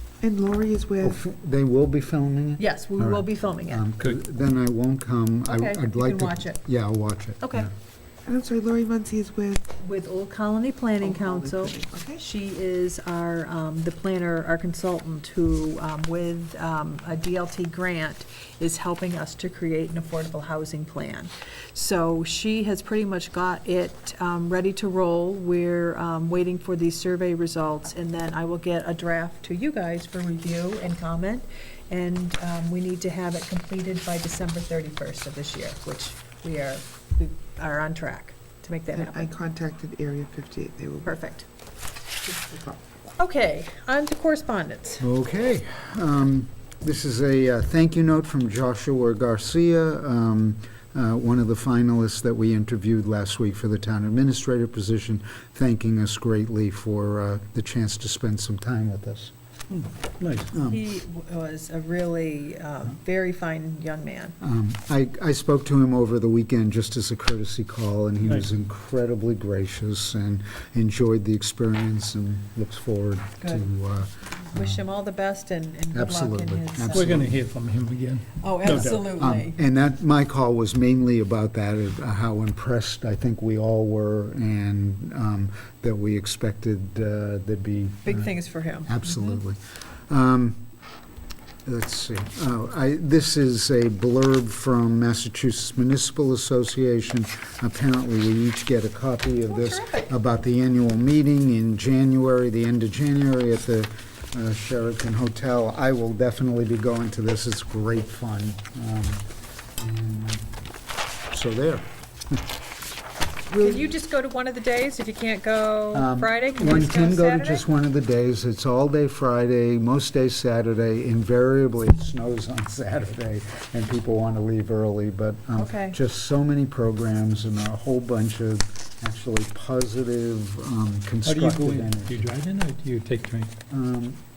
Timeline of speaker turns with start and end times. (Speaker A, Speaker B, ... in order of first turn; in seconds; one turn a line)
Speaker A: 0.2-1.2
Speaker B: 1.0-7.7
Speaker C: 2.6-3.8
Speaker C: 5.5-6.6
Speaker C: 7.4-7.7
Speaker A: 8.2-9.7
Speaker C: 9.8-39.3
Speaker A: 11.0-12.2
Speaker A: 38.9-41.2
Speaker C: 41.0-41.5
Speaker A: 42.2-42.8
Speaker C: 43.1-45.0
Speaker B: 45.0-59.3
Speaker D: 59.7-60.5
Speaker B: 60.5-60.8
Speaker C: 60.6-64.3
Speaker B: 64.4-74.8
Speaker C: 74.5-77.3
Speaker B: 75.9-77.3
Speaker D: 76.9-79.1
Speaker C: 78.4-79.6
Speaker B: 78.7-90.7
Speaker C: 88.0-89.4
Speaker B: 91.7-109.2
Speaker C: 99.5-100.1
Speaker B: 109.8-110.5
Speaker B: 111.3-112.4
Speaker A: 113.5-113.8
Speaker C: 113.6-117.6
Speaker B: 115.9-132.3
Speaker C: 125.5-126.0
Speaker D: 131.2-133.5
Speaker B: 133.7-134.2